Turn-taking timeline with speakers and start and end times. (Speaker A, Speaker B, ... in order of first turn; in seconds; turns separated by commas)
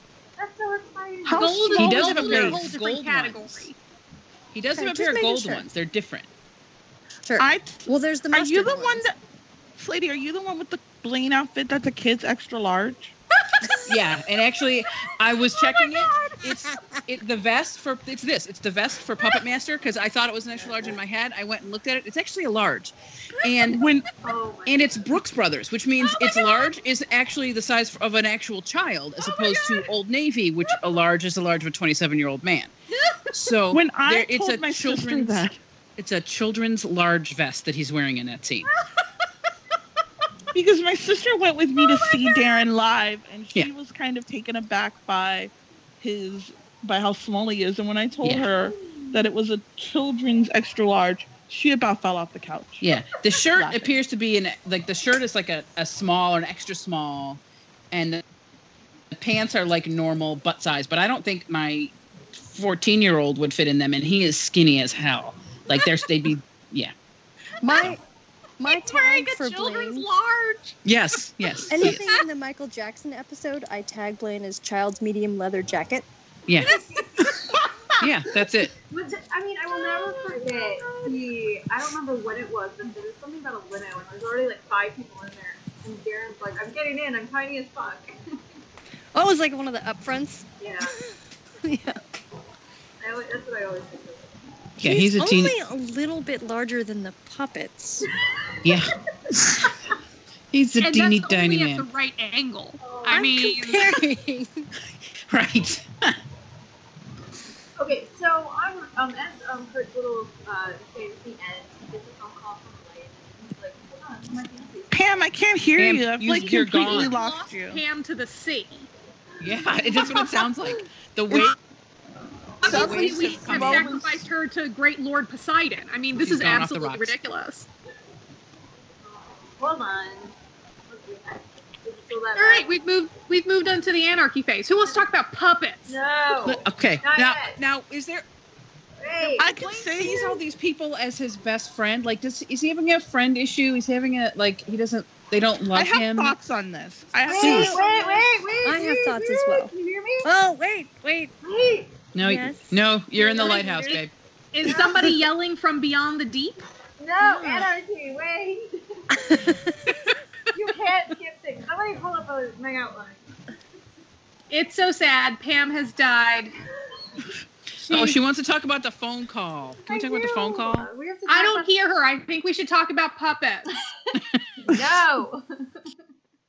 Speaker A: 0.4-1.6, Speaker B: 1.2-2.6, Speaker C: 1.4-3.8, Speaker D: 1.7-3.7, Speaker D: 4.5-6.3, Speaker E: 4.7-5.7, Speaker E: 7.2-9.1, Speaker B: 7.4-9.2, Speaker B: 9.8-13.1, Speaker D: 13.8-24.0, Speaker E: 16.5-17.0, Speaker A: 24.2-25.1, Speaker D: 24.6-32.7, Speaker C: 26.1-26.6, Speaker D: 33.3-35.4, Speaker B: 33.7-35.6, Speaker D: 36.0-38.7, Speaker B: 40.5-52.9, Speaker D: 48.2-48.5, Speaker D: 52.8-57.4, Speaker B: 53.5-53.9, Speaker D: 57.9-58.2, Speaker D: 59.1-61.9, Speaker D: 62.5-66.9, Speaker E: 67.6-68.0, Speaker E: 68.6-70.1, Speaker C: 68.6-70.8, Speaker D: 70.8-72.0, Speaker C: 71.4-72.2, Speaker E: 71.7-76.1, Speaker D: 76.5-76.8, Speaker C: 76.6-77.3, Speaker A: 76.7-77.3, Speaker D: 78.0-78.7, Speaker A: 78.9-88.1, Speaker E: 89.1-92.0, Speaker A: 90.6-91.0, Speaker A: 93.0-94.4, Speaker D: 94.8-95.5, Speaker E: 94.8-98.1, Speaker A: 98.5-98.8, Speaker D: 98.6-98.9, Speaker D: 100.5-101.9, Speaker C: 100.8-103.9, Speaker A: 102.8-103.3, Speaker E: 103.1-104.7, Speaker D: 105.2-106.2, Speaker A: 107.8-115.2, Speaker B: 114.9-117.8, Speaker D: 115.8-117.1, Speaker C: 116.4-118.9, Speaker A: 119.4-120.2, Speaker D: 119.4-121.5, Speaker C: 122.6-127.7, Speaker B: 122.6-124.2, Speaker D: 122.6-124.0, Speaker D: 126.2-127.2, Speaker A: 129.0-130.3, Speaker A: 130.9-132.7, Speaker C: 132.3-136.0, Speaker A: 135.9-137.6, Speaker D: 136.4-138.2, Speaker A: 139.0-139.6, Speaker B: 139.4-140.4, Speaker D: 139.5-146.3, Speaker B: 145.7-147.8, Speaker A: 147.2-150.3, Speaker E: 147.3-149.7, Speaker D: 147.4-147.8, Speaker E: 150.2-151.3, Speaker A: 151.4-152.0, Speaker D: 152.1-154.1, Speaker E: 152.2-152.8, Speaker A: 153.2-153.9, Speaker E: 153.3-154.0, Speaker C: 154.5-156.6, Speaker A: 154.6-155.2, Speaker A: 157.0-159.5, Speaker E: 157.2-157.7, Speaker E: 159.2-160.0, Speaker A: 160.5-163.2, Speaker C: 164.5-166.5, Speaker D: 167.8-170.9, Speaker C: 167.8-168.2, Speaker A: 169.8-171.7, Speaker C: 171.3-173.7, Speaker A: 174.1-175.7, Speaker D: 174.2-174.8